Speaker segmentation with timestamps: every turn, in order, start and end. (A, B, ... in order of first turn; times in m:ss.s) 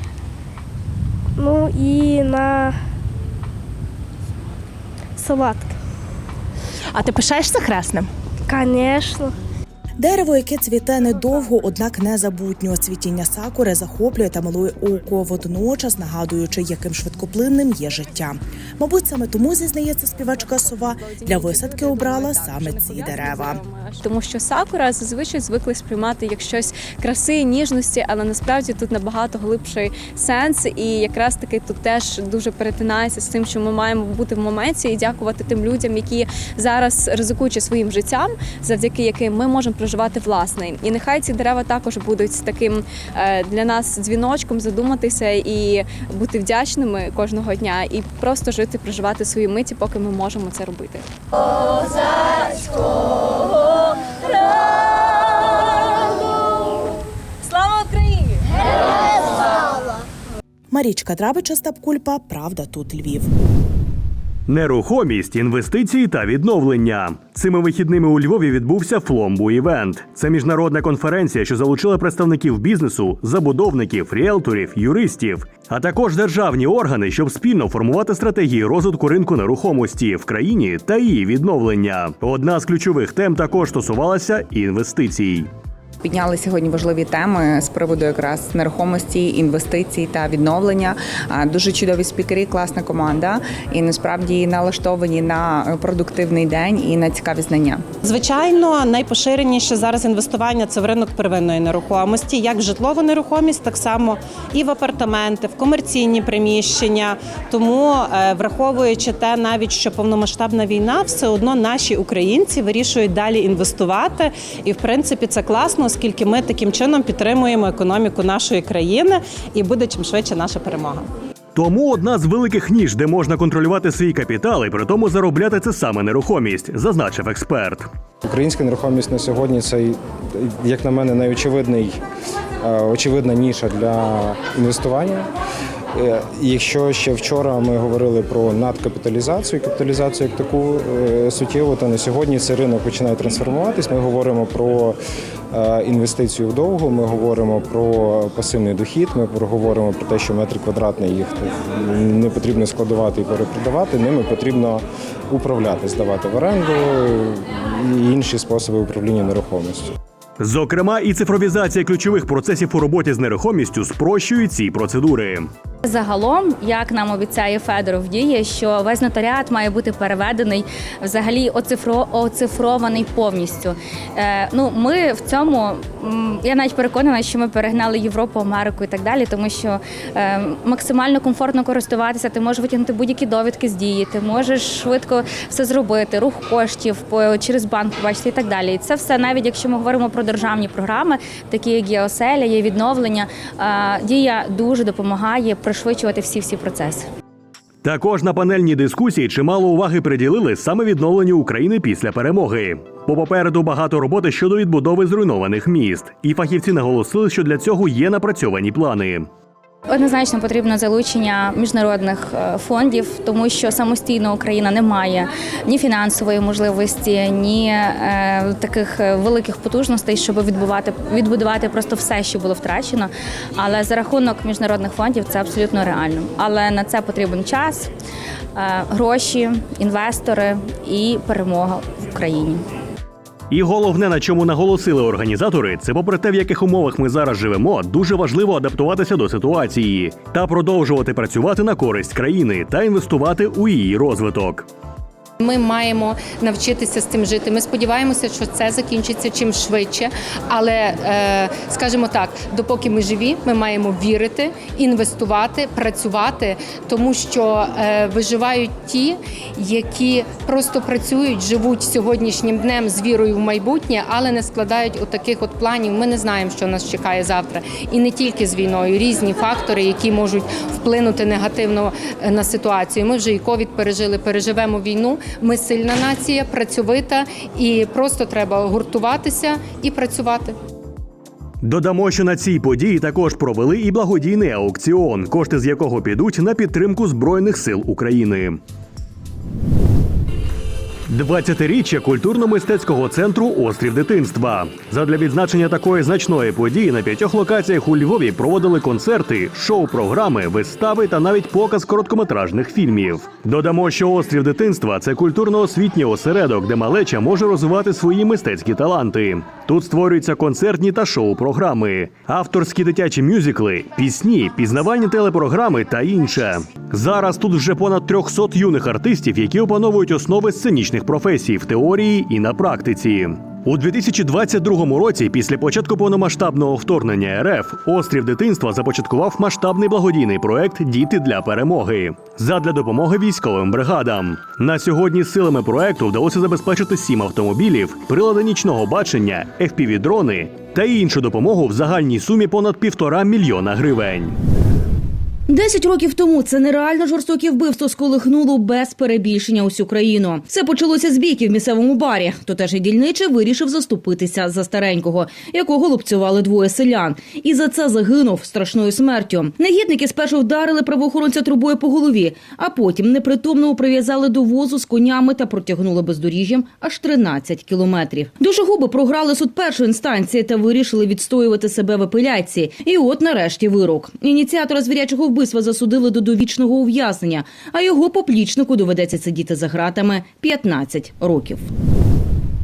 0:01.4-0:02.7 A
0:05.2-0:05.7 A
0:07.0-0:07.8 B
0:07.2-0:08.1 C
0:08.5-0:09.3 A
0:10.0-0:23.6 D
0:20.3-0:51.1 E
0:57.5-0:58.4 E
1:00.7-1:03.3 D
1:04.5-1:25.5 F
1:26.0-1:37.8 G
1:38.0-2:01.1 B
2:01.6-2:07.9 F
2:08.2-2:12.0 H
2:12.6-2:15.3 H
2:15.9-2:25.0 H
2:25.5-2:39.9 H
2:40.4-2:45.5 F
2:45.8-3:17.1 E
3:17.8-3:29.3 F
3:29.9-3:47.9 E
3:48.6-3:52.6 E
3:53.5-4:04.7 F
4:05.4-4:40.6 C
4:41.6-4:48.6 F
4:51.1-5:44.4 F
5:45.5-6:21.7 I